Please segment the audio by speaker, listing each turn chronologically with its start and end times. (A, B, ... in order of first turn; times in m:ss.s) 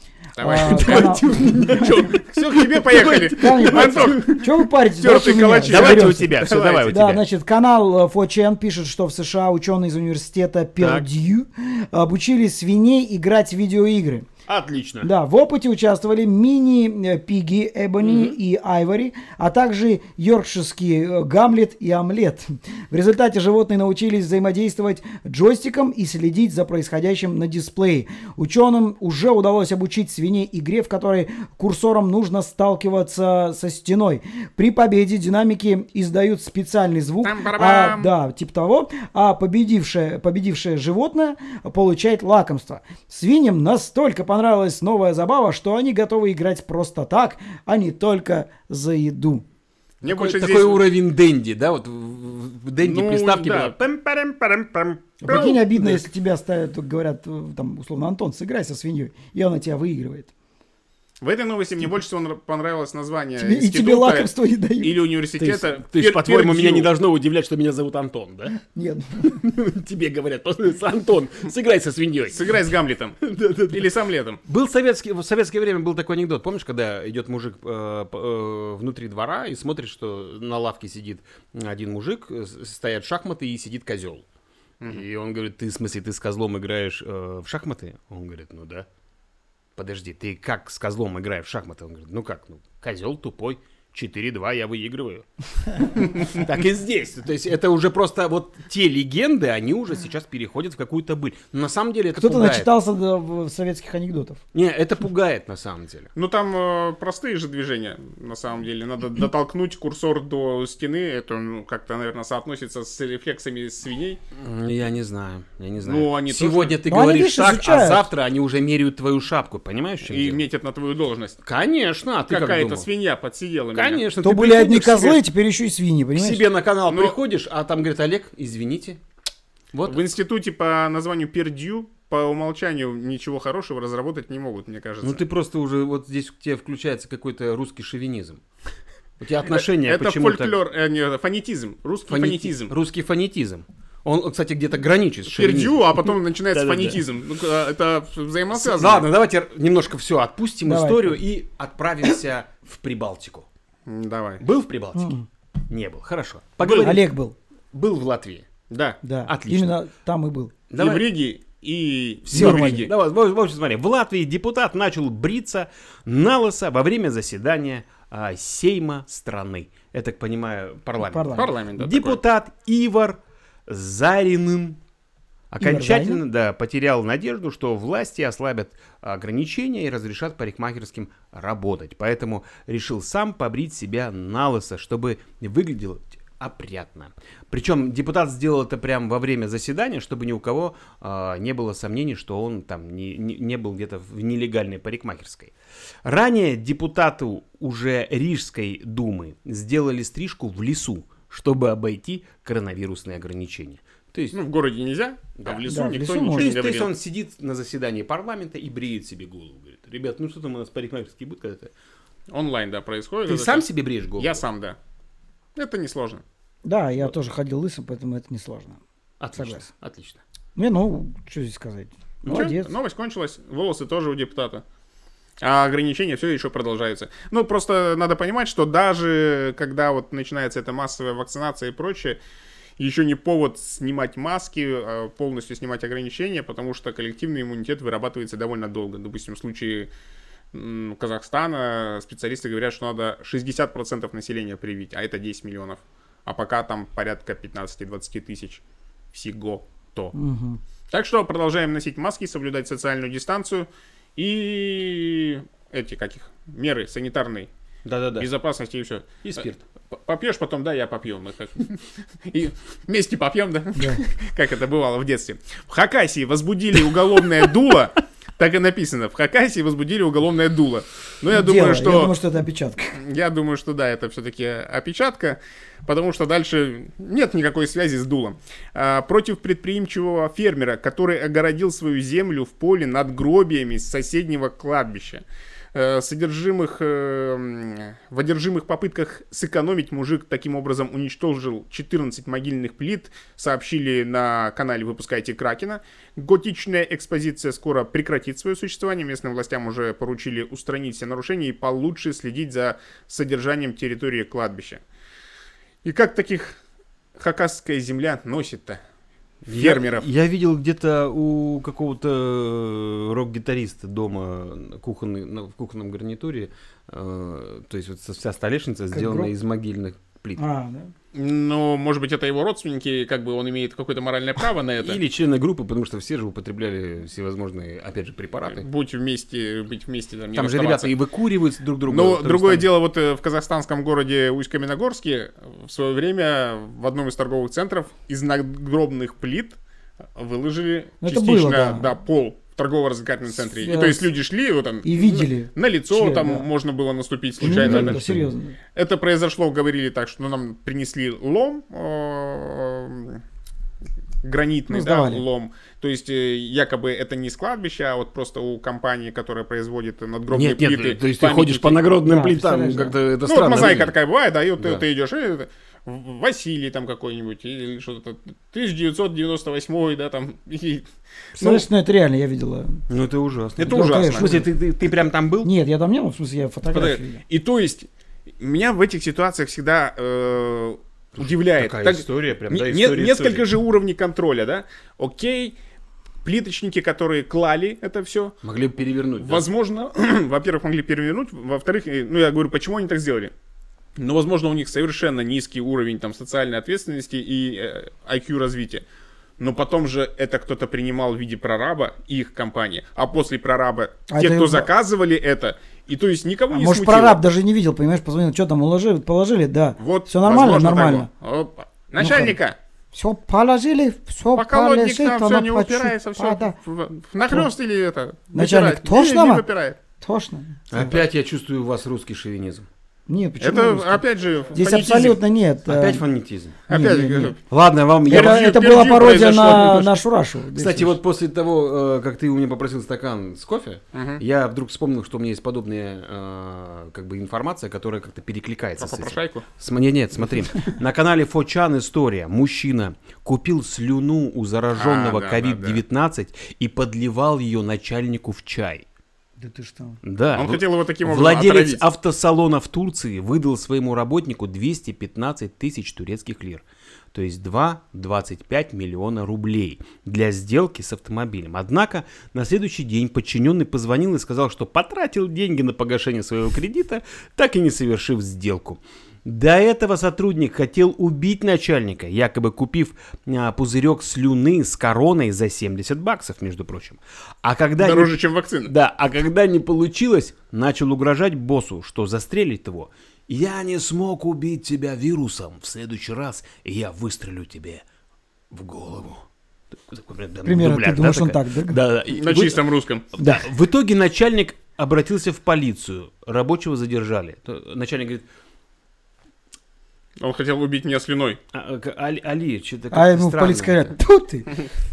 0:00.4-0:07.0 A
0:00.4-0:02.0 B
0:00.5-0:04.3 C
0:03.3-0:14.3 B
0:05.0-0:07.2 C
0:10.8-0:11.0 C
0:14.5-0:15.1 C
0:15.0-0:49.4 B
0:18.0-0:18.3 C
0:37.2-0:38.1 A
0:50.0-0:50.8 A
0:50.0-0:55.6 C
0:52.8-0:53.8 A
0:55.2-1:00.3 B
0:55.2-0:56.0 A
1:01.2-1:04.3 A
1:03.4-1:05.0 B
1:04.8-1:06.9 A
1:05.4-1:08.5 C
1:08.7-1:09.3 B
1:09.2-1:12.5 C
1:12.3-1:14.4 A
1:13.2-1:13.9 C
1:14.4-1:24.2 C
1:24.8-1:28.9 C
1:29.8-1:42.7 C
1:42.2-1:44.4 B
1:44.5-1:46.1 C
1:46.2-1:54.2 A
1:54.4-2:00.4 C
1:55.8-1:56.8 A
1:56.8-1:58.1 B
2:00.0-2:01.4 A
2:01.4-2:02.9 C
2:02.3-2:04.0 A
2:03.7-2:05.2 C
2:04.2-2:06.4 B
2:06.2-2:09.0 C
2:06.9-2:07.2 A
2:09.7-2:10.0 C
2:09.8-2:15.2 A
2:15.0-2:18.4 C
2:19.2-2:20.6 C
2:19.5-2:22.7 A
2:22.1-2:27.0 C
2:25.3-2:29.1 A
2:28.5-2:33.4 C
2:30.6-2:31.2 B
2:33.9-2:34.4 A
2:34.4-2:35.1 C
2:34.9-2:35.2 B
2:35.7-2:37.1 C
2:36.6-2:36.9 A
2:36.8-2:37.3 B
2:37.7-2:38.5 C
2:38.7-2:39.0 A
2:39.0-2:40.5 B
2:39.2-2:39.8 C
2:40.7-2:41.1 C
2:40.8-2:42.9 A
2:42.3-2:42.9 B
2:42.3-2:54.8 C
2:51.0-2:51.5 B
2:51.3-2:52.2 A
2:55.5-3:24.4 C
2:55.6-2:56.2 B
3:24.3-3:26.9 A
3:25.4-3:25.7 C
3:25.7-3:26.5 B
3:26.3-3:31.7 C
3:32.3-3:34.8 A
3:33.3-3:34.4 C
3:35.6-3:36.2 A
3:36.6-3:38.8 B
3:39.2-3:40.2 C
3:39.4-3:39.6 B
3:40.6-3:42.7 B
3:42.2-3:44.6 A
3:45.4-3:52.2 A
3:52.8-3:59.9 A
4:00.5-4:08.6 A
4:09.1-4:10.1 A
4:10.1-4:10.6 B
4:10.9-4:17.5 A
4:17.8-4:18.3 C
4:18.2-4:32.1 A
4:23.8-4:24.0 B
4:31.3-4:33.0 B
4:33.0-5:04.8 A
5:05.8-5:06.6 A
5:07.2-5:08.8 A
5:09.5-5:20.4 C
5:09.5-5:10.1 A
5:18.9-5:19.3 B
5:20.4-5:20.9 B
5:21.1-5:25.0 A
5:24.8-5:28.6 C
5:28.5-5:30.9 A
5:30.3-5:32.7 C
5:31.9-5:39.6 A
5:40.1-5:48.1 A
5:41.0-5:41.8 B
5:43.3-5:44.1 B
5:44.8-5:46.4 B
5:47.4-5:48.3 C
5:47.4-5:48.5 B
5:48.7-5:53.2 A
5:54.2-6:01.9 A
5:54.7-5:55.2 B
6:00.3-6:03.9 C
6:02.0-6:02.9 B
6:03.2-6:10.9 A
6:11.4-6:12.8 B
6:11.4-6:11.6 A
6:12.9-6:15.5 C
6:13.6-6:14.3 A
6:13.6-6:14.5 B
6:15.4-6:17.2 B
6:16.7-6:17.9 A
6:18.4-6:25.6 A
6:21.2-6:23.5 C
6:26.2-6:28.4 A
6:28.4-6:29.4 C
6:29.2-6:33.3 A
6:34.0-6:38.8 A
6:39.4-6:47.2 A
6:44.1-6:44.7 B
6:46.5-6:51.1 B
6:49.8-6:52.6 A
6:52.0-6:52.4 B
6:52.9-6:56.5 B
6:54.4-6:59.8 A
6:58.3-6:59.4 B
7:00.0-7:01.0 B
7:00.7-7:02.7 C
7:03.1-7:04.0 B
7:03.4-7:05.2 A
7:04.5-7:06.0 B
7:05.7-7:06.7 C
7:06.7-7:07.4 A
7:06.7-7:07.3 B
7:07.5-7:08.4 C
7:08.1-7:11.0 B
7:08.1-7:10.0 A
7:10.6-7:28.8 C
7:13.9-7:14.2 A
7:18.8-7:19.4 A
7:24.8-7:25.8 A
7:29.4-7:30.0 B
7:30.0-8:07.8 C
7:30.4-7:31.8 A
7:57.8-7:58.7 A
8:08.5-8:12.6 C
8:10.4-8:11.8 B
8:12.1-8:13.0 A
8:13.2-8:18.2 C
8:13.2-8:13.4 B
8:20.2-8:21.4 A
8:21.5-8:23.9 C
8:22.9-8:24.6 B